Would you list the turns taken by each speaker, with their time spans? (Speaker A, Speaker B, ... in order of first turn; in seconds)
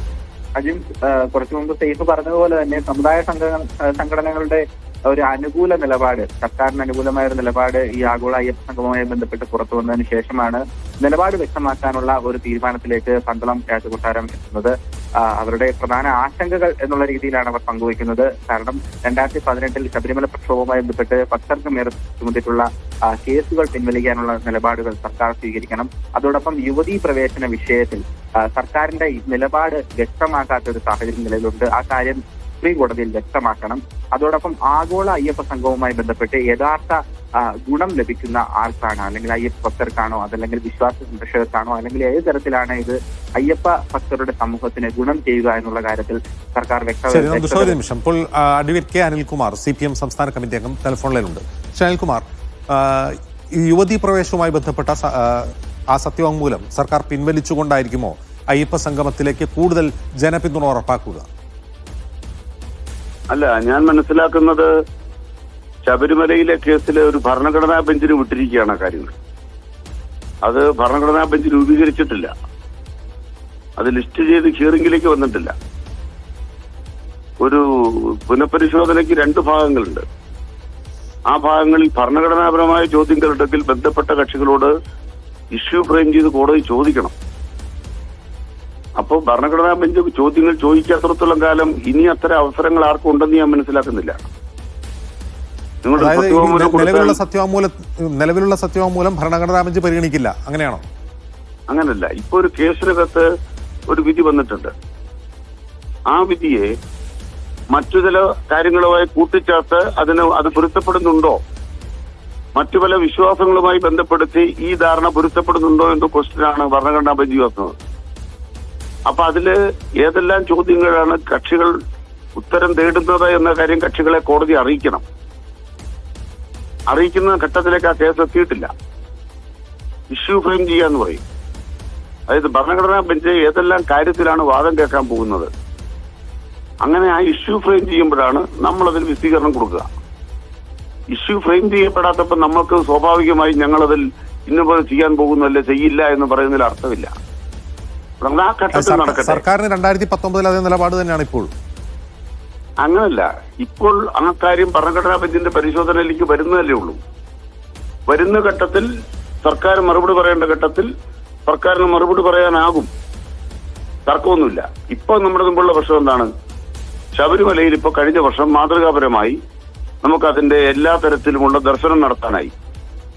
Speaker A: 0.6-47.8
Speaker B: 47.1-61.2, 96.0-100.8, 148.7-151.5
Speaker C: 63.3-64.7, 65.9-69.1, 70.4-72.3, 73.8-75.5, 77.4-80.0, 81.3-84.7, 85.5-87.1, 89.0-94.2, 95.8-97.2, 101.7-103.3, 103.9-104.7, 106.1-106.7, 107.7-111.4, 112.6-117.7, 119.1-121.7, 122.4-125.0, 126.9-128.7, 130.1-131.2, 132.3-135.5, 136.8-139.8, 141.1-147.1, 148.2-149.4, 152.8-157.0, 158.1-158.9, 159.4-160.9, 161.5-162.9, 164.1-166.3, 167.2-169.4, 170.0-172.5